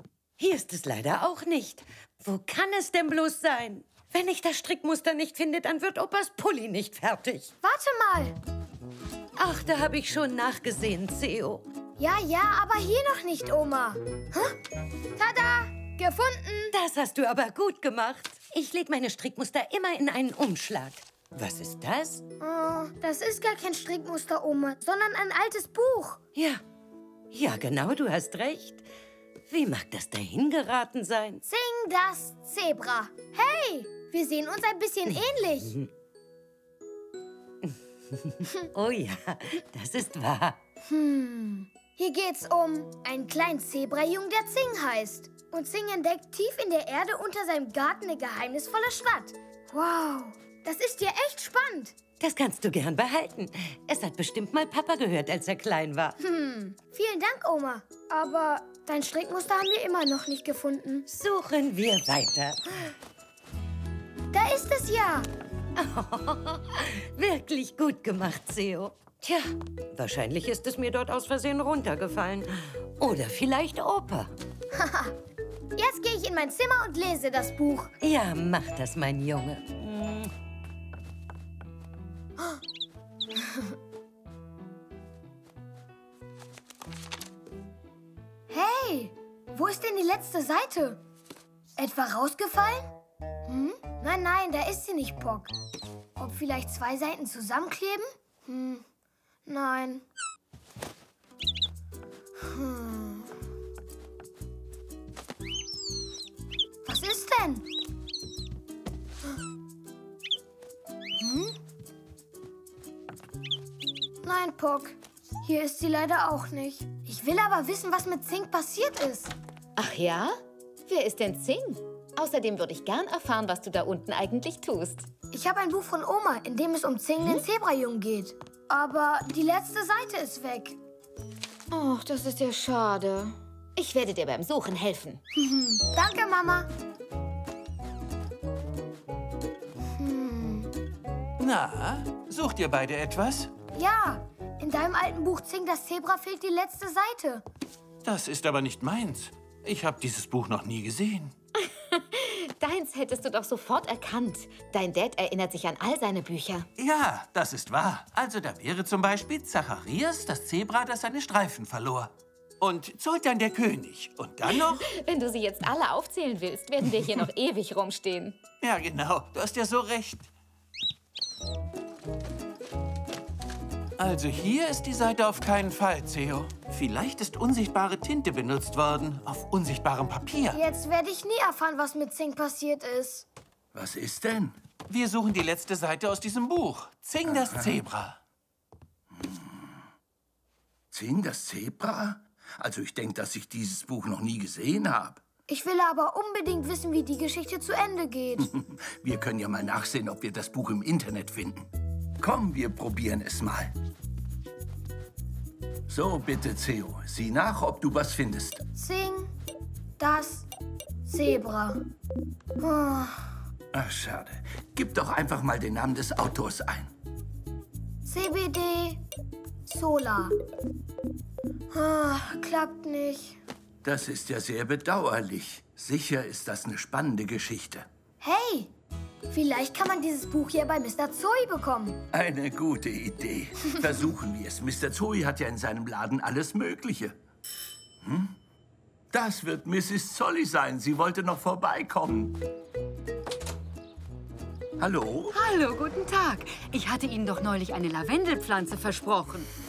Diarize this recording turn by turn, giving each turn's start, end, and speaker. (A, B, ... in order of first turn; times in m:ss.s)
0:00.4-0:07.5 A
0:07.6-0:08.4 B
0:09.4-0:11.6 A
0:12.0-0:14.5 B
0:15.2-0:16.7 B
0:16.7-0:22.2 A
0:22.4-0:26.2 B
0:26.3-0:26.6 A
0:27.3-0:28.8 A
0:29.5-0:31.4 A
0:31.4-0:35.7 B
0:38.7-0:40.6 A
0:40.9-0:52.0 B
0:52.2-0:56.1 A
0:56.2-1:01.0 B
1:01.1-1:02.6 A
1:04.3-1:05.3 B
1:05.8-1:14.3 A
1:14.8-1:15.1 B
1:15.8-1:17.9 B
1:18.0-1:20.3 A
1:28.5-1:31.0 B
1:31.8-1:32.9 B
1:33.5-1:35.5 B
1:36.2-1:38.8 B
1:39.4-1:40.0 B
1:42.4-1:43.3 B
1:46.8-1:47.6 B
1:51.2-1:51.5 B
1:54.2-1:59.3 B
1:59.8-2:05.1 C
2:05.3-2:10.8 B
2:11.7-2:15.2 C
2:15.3-2:16.7 B
2:20.0-2:20.7 B
2:21.4-2:23.5 D
2:23.7-2:27.4 B
2:28.0-2:31.3 D
2:31.6-2:36.7 C
2:36.8-2:44.8 D
2:44.5-2:48.4 C
2:48.6-2:50.3 D
2:54.0-3:00.6 D
3:00.5-3:03.2 B
3:03.7-3:04.6 E
3:04.9-3:08.2 D
3:09.2-3:09.7 E
3:10.9-3:15.2 E
3:15.5-3:18.5 B
3:18.4-3:21.7 E
3:22.2-3:23.7 E
3:25.9-3:28.6 E
3:28.8-3:29.3 B
3:30.0-3:30.5 B
3:31.0-3:31.8 B
3:32.6-3:33.3 B
3:33.7-3:36.9 E
3:38.0-3:39.0 B
3:39.7-3:40.3 B
3:41.7-3:43.4 B
3:43.8-3:47.9 E
3:48.2-3:48.7 B
3:49.3-3:52.0 B
3:52.1-3:57.2 E
3:58.0-3:58.3 E
3:59.1-4:02.4 E
4:04.8-4:05.4 E
4:05.3-4:09.5 F